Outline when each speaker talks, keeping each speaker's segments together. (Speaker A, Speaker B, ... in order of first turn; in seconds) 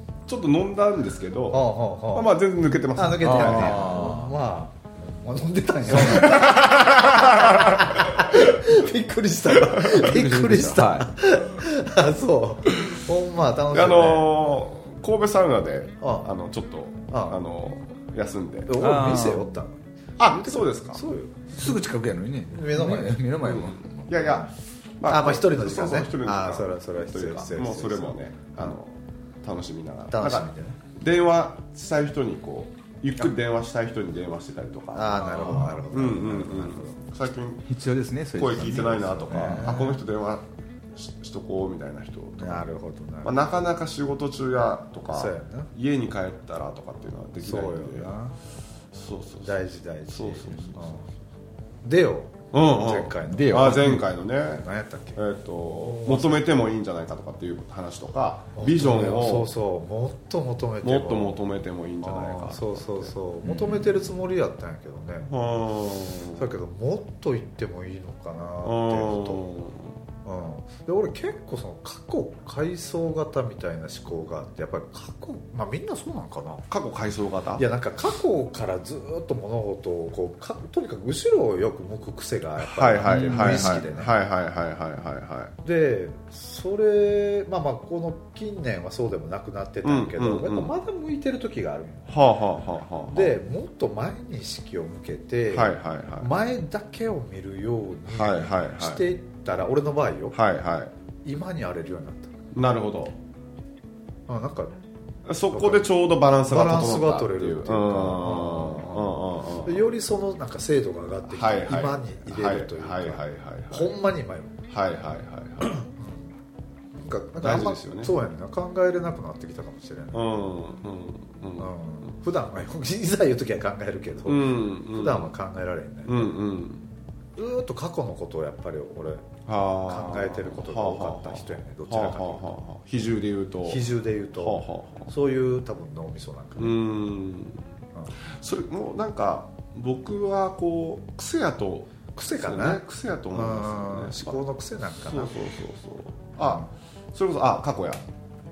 Speaker A: 0.3-4.1, 5.9-8.7, 9.5-11.0, 13.7-18.7, 20.2-21.0, 23.4-37.7, 38.3-42.6, 43.2-48.1, 48.9-50.9, 52.5-59.5, 60.8-63.1, 65.3-66.5, 68.6-69.9, 76.7-77.6, 82.6-85.5, 89.8-90.8, 92.1-93.4, 95.5-96.3, 98.1-99.0, 100.3-100.9, 102.5-103.2, 105.2-109.9, 111.3-113.9, 114.7-115.7, 117.4-118.1, 120.1-121.7, 124.2-125.3, 126.0-126.8, 129.4-133.8, 134.4-135.1, 136.6-137.6, 138.3-144.4, 145.0-148.0
Speaker B: 1.5-2.3, 2.9-14.4, 16.0-16.3, 17.1-17.4, 18.7-21.6, 22.5-23.2, 25.1-28.8, 30.1-30.8, 34.9-37.0, 39.2-40.0, 42.4-43.5, 45.1-45.7, 47.4-48.3, 49.4-51.1, 51.8-54.0, 54.5-56.4, 58.5-61.4, 62.0-65.3, 66.3-69.4, 70.2-76.7, 77.5-84.1, 85.6-92.2, 93.1-100.4, 101.2-102.3, 104.3-104.7, 105.5-105.9, 106.4-114.6, 115.6-116.3, 117.0-120.2, 121.6-126.3, 127.4-129.3, 129.8-132.5, 133.7-136.8, 142.1-145.3, 146.4-146.7
Speaker C: 3.2-4.3, 9.9-11.1, 18.8-19.5, 21.5-24.4, 35.2-35.8, 37.7-39.9, 53.3-54.0, 63.4-64.0, 83.0-83.8